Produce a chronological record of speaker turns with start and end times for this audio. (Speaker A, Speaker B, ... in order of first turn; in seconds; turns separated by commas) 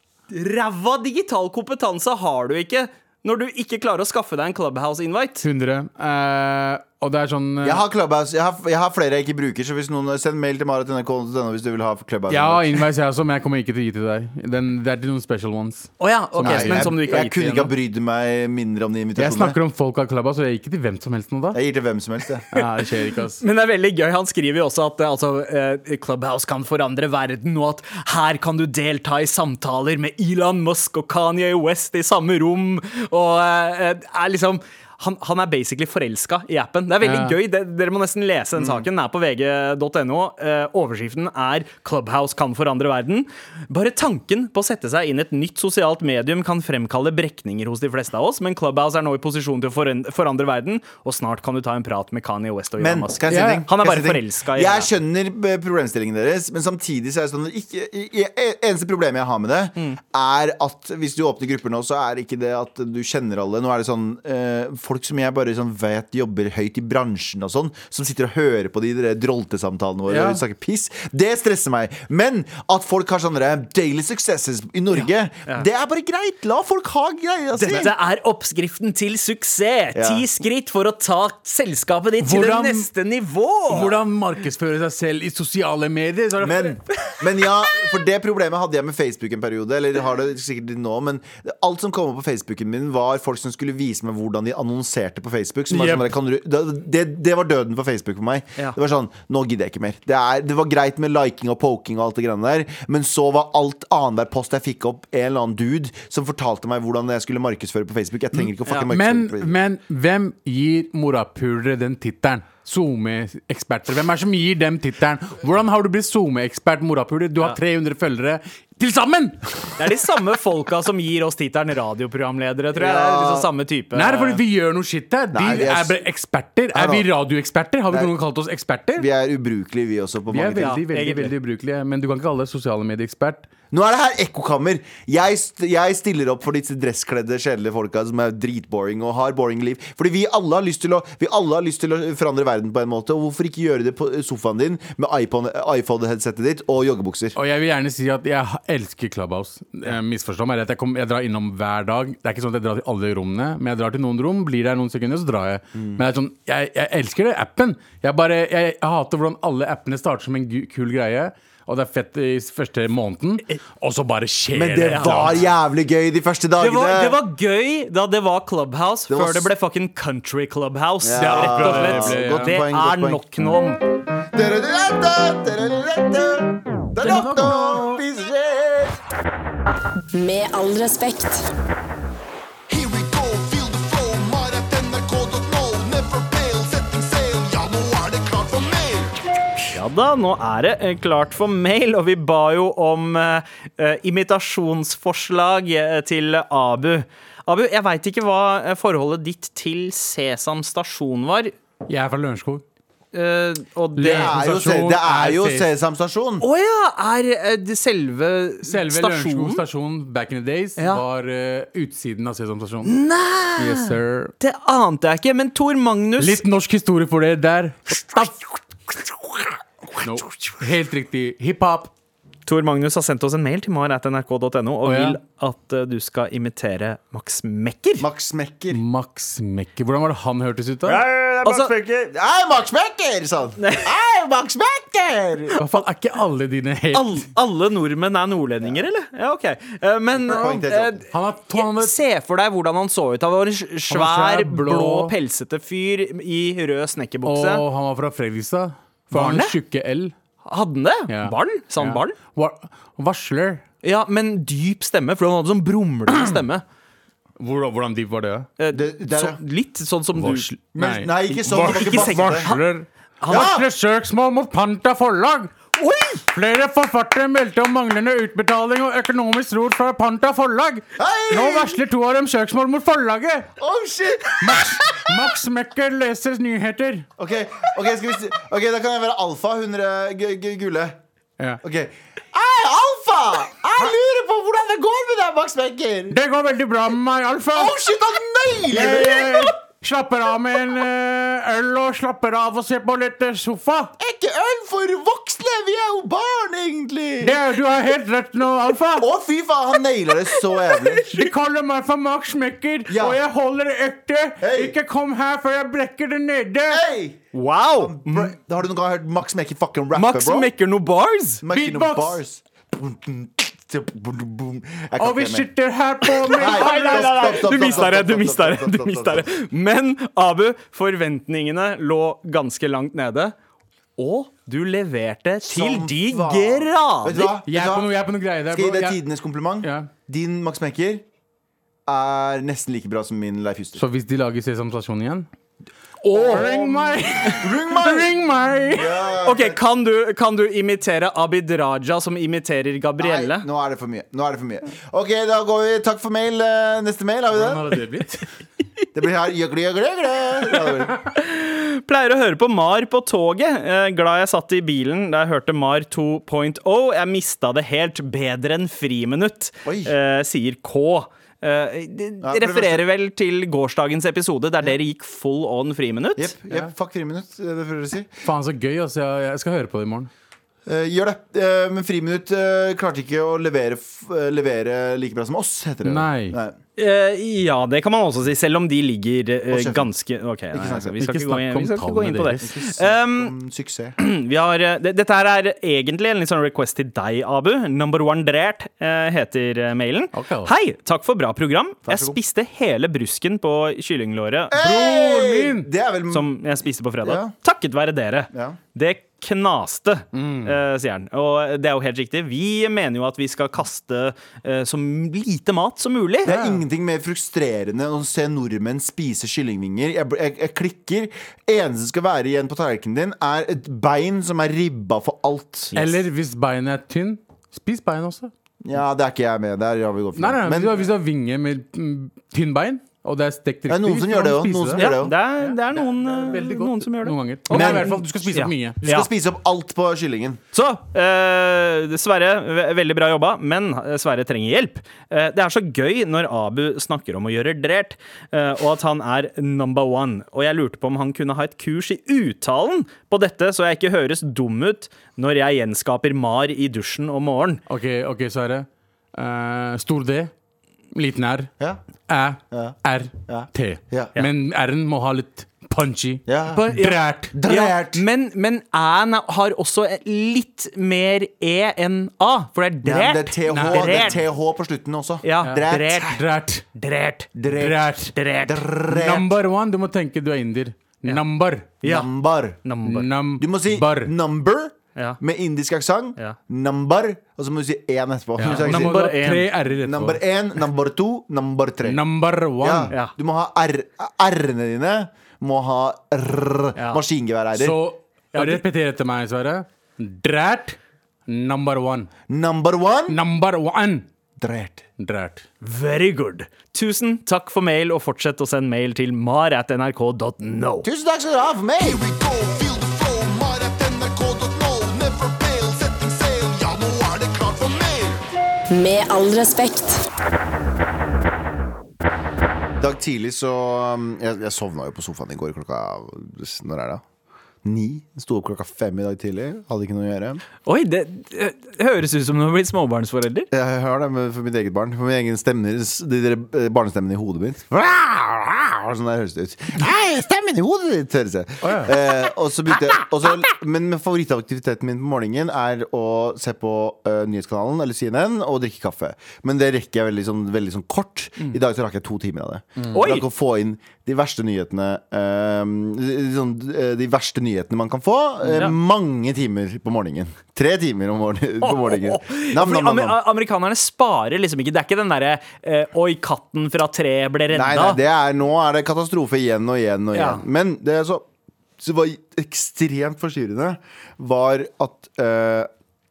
Speaker A: 0.3-5.5, Speaker B: 5.4-7.8, Speaker C: 7.6-12.8, Speaker B: 12.3-16.9, Speaker A: 16.0-17.7, Speaker C: 16.4-19.6, Speaker B: 19.2-21.6, Speaker C: 21.5-22.4, Speaker B: 22.5-23.4, Speaker A: 23.4-54.9, Speaker B: 37.0-37.4, Speaker C: 38.6-38.9, Speaker C: 52.8-77.9, Speaker B: 53.3-53.6, Speaker B: 70.1-70.4, Speaker A: 77.5-84.0, Speaker C: 79.9-80.2, Speaker B: 82.2-82.9, Speaker B: 83.7-86.8, Speaker C: 86.4-109.5, Speaker B: 95.7-96.1, Speaker B: 108.9-119.8, Speaker A: 119.8-124.4, Speaker C: 122.7-123.5, Speaker B: 123.9-129.1, Speaker C: 125.3-126.0, Speaker C: 126.7-127.1, Speaker C: 129.0-130.8, Speaker B: 130.3-133.5, Speaker A: 130.6-131.3, Speaker C: 133.7-147.4, Speaker B: 147.4-165.4, Speaker C: 155.7-156.0, Speaker C: 164.5-167.2, Speaker A: 164.8-165.4, Speaker A: 166.6-173.8, Speaker C: 169.1-169.5, Speaker C: 171.0-173.2, Speaker B: 171.2-172.5, Speaker C: 174.3-179.0, Speaker B: 177.0-177.8, Speaker D: 180.1-181.5, Speaker C: 182.7-189.2, Speaker A: 189.7-201.5, Speaker B: 201.9-202.6, Speaker A: 203.1-204.3, Speaker B: 204.0-205.7, Speaker C: 204.1-206.4, Speaker A: 206.4-209.6, Speaker B: 208.6-212.9, Speaker A: 210.8-211.0, Speaker A: 212.8-216.4, Speaker B: 213.6-214.3, Speaker B: 216.2-218.4, Speaker B: 220.0-221.9, Speaker A: 222.4-228.1, Speaker B: 224.8-225.2, Speaker C: 228.0-228.8, Speaker B: 228.7-231.0, Speaker C: 230.8-235.6, Speaker A: 231.4-231.7, Speaker A: 233.6-233.9, Speaker B: 235.6-237.2, Speaker A: 236.9-247.6, Speaker C: 240.2-241.0, Speaker B: 241.1-241.9, Speaker B: 243.9-245.1, Speaker B: 247.2-250.1, Speaker A: 249.1-249.6, Speaker A: 250.4-252.2, Speaker B: 251.1-253.6, Speaker A: 253.8-256.6, Speaker B: 257.4-258.5, Speaker A: 258.6-260.5, Speaker C: 258.7-259.4, Speaker B: 260.1-265.5, Speaker C: 260.7-262.5, Speaker A: 261.6-262.7, Speaker A: 263.2-263.5, Speaker C: 263.3-263.7, Speaker A: 265.8-266.2, Speaker B: 266.3-273.5, Speaker C: 271.0-271.8, Speaker C: 273.6-275.1, Speaker B: 274.4-277.1, Speaker C: 277.2-281.0, Speaker C: 281.6-286.2, Speaker B: 286.1-287.8, Speaker C: 287.5-289.5, Speaker B: 288.7-293.9, Speaker C: 294.0-297.4, Speaker B: 297.2-299.1, Speaker C: 299.0-301.1, Speaker B: 301.0-306.8, Speaker C: 302.9-303.2, Speaker C: 304.4-304.8, Speaker C: 306.7-307.2, Speaker A: 307.3-308.3, Speaker C: 307.8-310.5, Speaker A: 309.9-311.4, Speaker C: 311.4-315.5, Speaker B: 311.5-312.2, Speaker B: 315.0-317.7, Speaker A: 316.2-323.3, Speaker C: 316.3-319.2, Speaker A: 324.0-327.4, Speaker C: 325.4-327.9, Speaker B: 327.4-329.0, Speaker C: 328.5-331.0, Speaker B: 329.6-329.9, Speaker C: 331.9-333.8, Speaker B: 333.8-335.3, Speaker B: 336.0-339.0, Speaker C: 336.1-338.2, Speaker C: 338.7-339.6, Speaker A: 339.2-343.4, Speaker C: 343.0-347.8, Speaker B: 347.3-348.2, Speaker C: 348.9-351.0, Speaker A: 351.1-366.3, Speaker C: 359.6-359.9, Speaker C: 362.2-362.8, Speaker C: 366.2-368.1, Speaker B: 368.2-370.1, Speaker C: 370.6-376.6, Speaker B: 375.8-376.4, Speaker A: 376.8-383.3, Speaker C: 379.5-379.9, Speaker C: 380.5-381.0, Speaker B: 381.0-382.4, Speaker C: 382.4-383.9, Speaker A: 384.0-394.6, Speaker B: 390.1-390.5, Speaker C: 391.9-392.2, Speaker C: 394.5-396.3, Speaker B: 394.5-395.7, Speaker A: 396.1-406.3, Speaker C: 397.0-397.3, Speaker C: 398.3-398.6, Speaker B: 400.1-400.5, Speaker C: 406.2-415.9, Speaker B: 406.2-406.6, Speaker B: 415.7-418.3, Speaker C: 418.6-420.8, Speaker B: 420.1-428.8, Speaker C: 423.7-425.1, Speaker A: 424.8-429.1, Speaker C: 427.5-428.0, Speaker C: 428.8-430.4, Speaker A: 430.5-447.6, Speaker B: 447.7-450.3, Speaker B: 450.9-451.5, Speaker B: 452.1-457.3, Speaker C: 452.5-452.8, Speaker C: 453.3-454.1, Speaker C: 456.3-456.7, Speaker A: 456.5-464.2, Speaker C: 457.3-458.0, Speaker C: 462.8-466.2, Speaker B: 463.5-464.2, Speaker A: 465.2-466.2, Speaker B: 465.4-466.6, Speaker A: 466.7-467.3, Speaker C: 467.3-467.9, Speaker B: 467.5-468.1, Speaker A: 468.1-468.6, Speaker C: 468.4-469.3, Speaker B: 468.9-471.7, Speaker A: 471.8-472.1, Speaker C: 471.8-472.6, Speaker A: 472.6-473.1, Speaker B: 472.8-474.1, Speaker C: 473.4-479.0, Speaker B: 478.4-480.2, Speaker A: 478.4-479.5, Speaker C: 479.8-482.0, Speaker B: 481.8-482.9, Speaker C: 482.6-487.8, Speaker A: 486.8-487.0, Speaker B: 487.5-492.1, Speaker A: 488.3-488.6, Speaker C: 492.3-493.2, Speaker B: 493.1-494.1, Speaker C: 494.4-494.8, Speaker B: 495.0-495.4, Speaker A: 495.6-500.9, Speaker C: 500.8-505.4, Speaker E: 502.1-508.1, Speaker D: 508.7-510.0, Speaker C: 512.8-517.0, Speaker C: 517.6-520.4, Speaker A: 520.6-523.5, Speaker C: 523.5-553.2, Speaker B: 531.6-531.9, Speaker A: 542.9-543.2, Speaker A: 548.4-548.8, Speaker A: 551.6-558.0, Speaker C: 557.5-561.2, Speaker A: 560.1-560.4, Speaker C: 561.8-565.7